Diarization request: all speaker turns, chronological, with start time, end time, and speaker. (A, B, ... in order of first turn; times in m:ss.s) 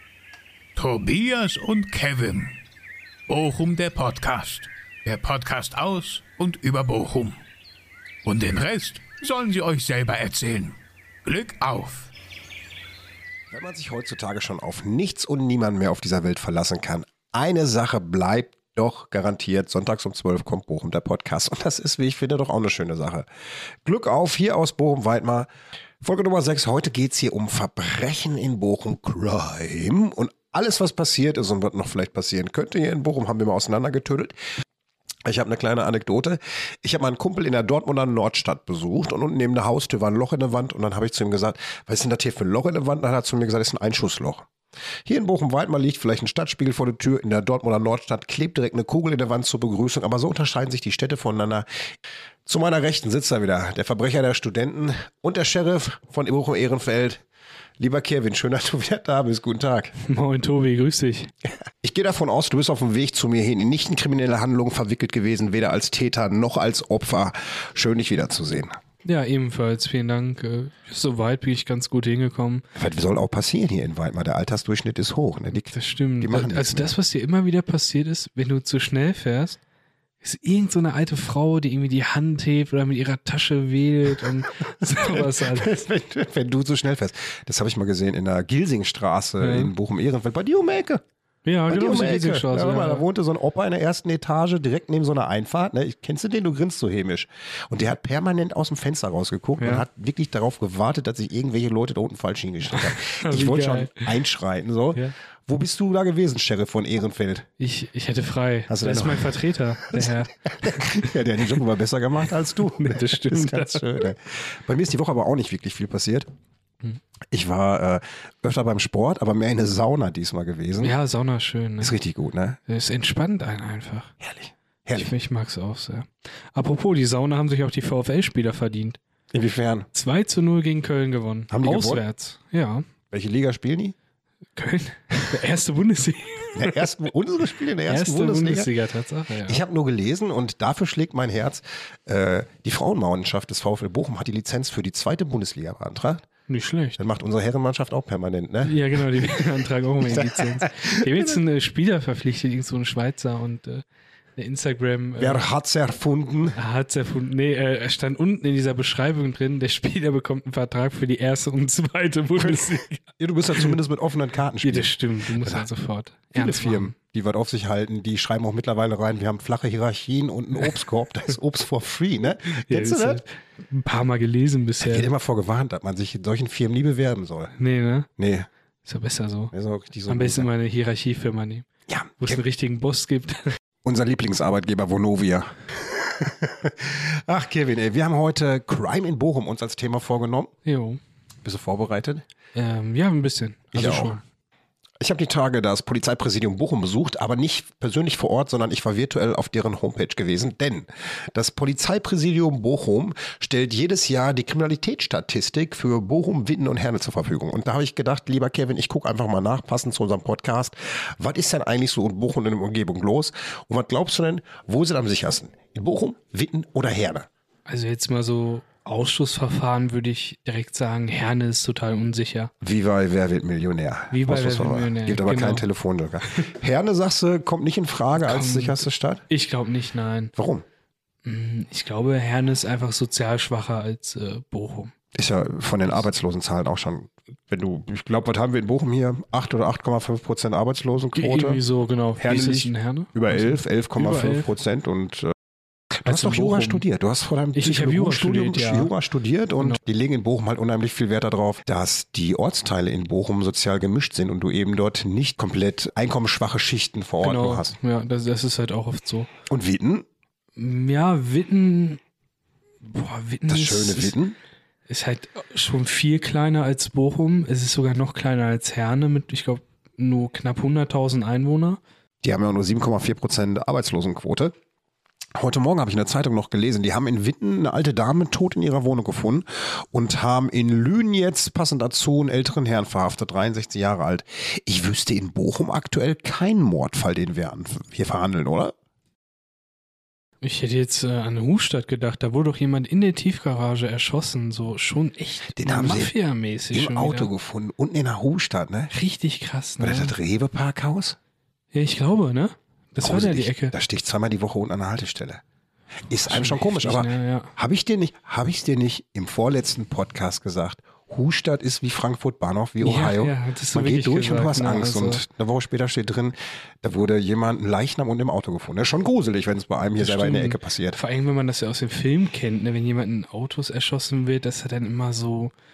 0:00.8-0:02.6 A
0:03.3-0:07.4 A
0:08.2-0:12.1 A
0:13.5-0:23.3 B
0:23.8-0:25.5 B
0:26.0-0:34.4 B
0:35.2-0:44.5 B
0:45.1-0:51.7 B
0:52.5-0:57.2 B
0:57.8-0:59.9 B
1:00.0-1:01.3 C
1:01.4-1:08.8 B
1:09.0-1:12.6 C
1:12.8-1:16.9 B
1:15.7-1:19.6 C
1:20.2-1:25.7 C
1:24.8-1:31.0 B
1:29.4-1:29.7 C
1:31.4-1:33.0 C
1:31.7-1:47.5 B
1:39.6-1:39.8 C
1:42.8-1:44.1 C
1:47.6-1:51.1 C
1:48.7-1:56.3 B
1:52.8-1:53.9 C
1:57.3-2:01.0 B
2:00.8-2:02.0 C
2:01.8-2:02.6 B
2:02.7-2:04.1 C
2:04.2-2:05.1 B
2:05.0-2:09.0 C
2:09.3-2:09.9 B
2:09.9-2:12.9 C
2:11.5-2:12.0 B
2:13.1-2:14.0 B
2:14.6-2:16.9 C
2:16.6-2:18.7 B
2:17.9-2:19.6 C
2:19.5-2:26.3 B
2:26.5-2:27.0 C
2:27.0-2:29.4 B
2:28.6-2:33.8 C
2:30.0-2:31.4 B
2:34.4-2:35.4 C
2:35.2-2:36.6 B
2:36.6-2:43.0 C
2:42.4-2:45.7 B
2:44.6-2:46.9 C
2:46.4-2:53.2 B
2:52.5-2:55.1 C
2:54.8-2:57.5 B
2:57.6-2:58.1 C
2:58.2-2:58.5 B
2:58.8-2:59.5 C
2:59.5-3:00.5 B
3:00.1-3:01.7 C
3:01.9-3:02.4 B
3:02.2-3:03.5 C
3:03.8-3:10.5 B
3:10.6-3:11.0 C
3:11.4-3:12.2 B
3:12.6-3:14.2 C
3:13.7-3:14.2 B
3:15.0-3:37.3 B
3:37.7-3:42.5 C
3:42.6-3:49.2 B
3:44.1-3:45.7 C
3:48.2-3:50.3 C
3:50.4-3:50.6 B
3:51.2-3:55.0 C
3:55.1-4:01.6 B
4:01.2-4:04.5 C
4:02.2-4:05.4 B
4:05.9-4:17.8 B
4:06.0-4:06.8 C
4:07.6-4:08.9 C
4:17.2-4:19.3 C
4:19.5-4:20.1 B
4:20.6-4:22.0 C
4:22.8-4:24.2 C
4:23.5-4:24.4 B
4:24.9-4:31.8 C
4:32.2-4:34.5 B
4:35.4-4:48.8 B
4:50.4-4:57.3 C
4:55.5-4:56.1 B
4:56.7-4:58.9 B
4:58.9-5:00.2 C
4:59.8-5:01.2 B
5:01.7-5:03.7 C
5:03.0-5:05.4 B
5:06.1-5:21.0 B
5:06.3-5:07.5 C
5:12.8-5:15.2 C
5:20.0-5:25.5 C